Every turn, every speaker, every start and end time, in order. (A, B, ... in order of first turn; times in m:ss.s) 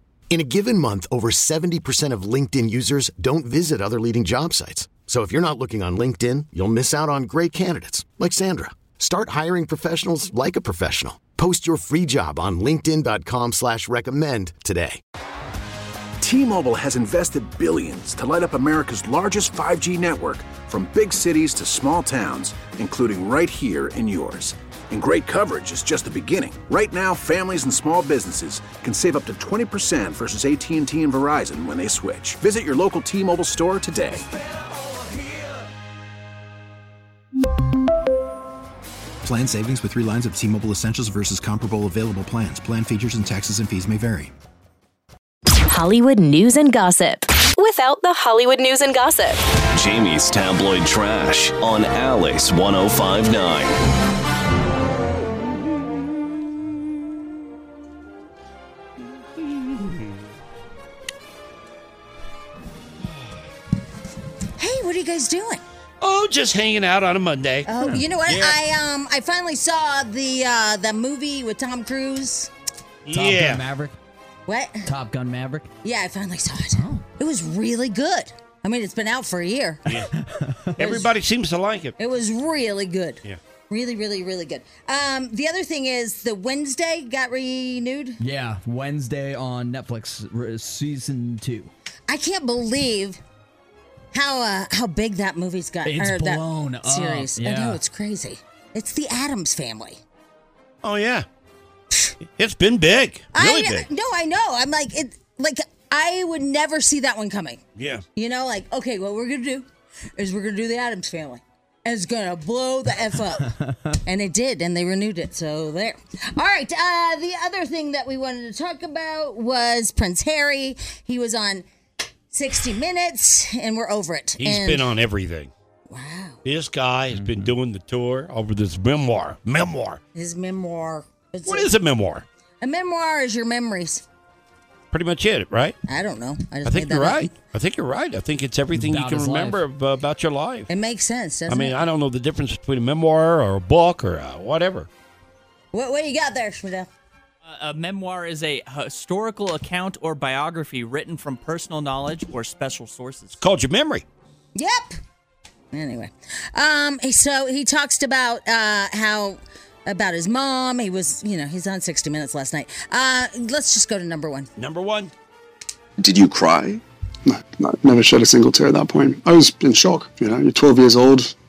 0:00.3-0:15.0 A
0:16.2-0:34.3 B
0:39.2-0:44.3 C
0:45.7-0:49.4 D
0:49.7-0:53.8 E
0:59.4-1:00.2 F
1:04.6-1:05.6 G
1:06.0-1:07.7 F
1:07.7-1:12.5 G
1:08.3-1:08.6 F
1:13.0-1:13.6 F
1:13.1-1:13.9 H
1:14.5-1:14.9 G
1:14.9-1:15.7 H
1:15.8-1:19.9 G
1:16.8-1:17.0 H
1:19.9-1:20.1 F
1:20.2-1:20.8 H
1:20.8-1:22.0 F
1:22.0-1:28.2 G
1:28.2-1:31.7 H
1:32.1-1:33.2 G
1:34.1-1:40.0 G
1:35.8-1:37.8 H
1:40.8-1:41.3 F
1:42.4-1:43.9 F
1:43.3-1:47.6 G
1:47.8-1:48.0 F
1:48.2-2:01.7 G
2:02.3-2:04.9 G
2:04.4-2:05.5 F
2:05.9-2:06.4 G
2:06.4-2:10.0 F
2:07.1-2:07.5 H
2:10.2-2:11.7 G
2:11.5-2:12.2 F
2:12.6-2:14.0 G
2:14.9-2:15.8 F
2:15.9-2:17.3 G
2:16.6-2:20.7 F
2:18.7-2:19.6 H
2:20.7-2:21.8 G
2:21.5-2:24.9 F
2:25.7-2:26.9 G
2:27.4-2:33.4 I
2:33.4-2:34.0 F
2:34.6-2:35.0 G
2:35.7-2:44.5 G
2:44.6-2:45.1 F
2:46.0-2:46.8 C
2:47.3-2:51.3 J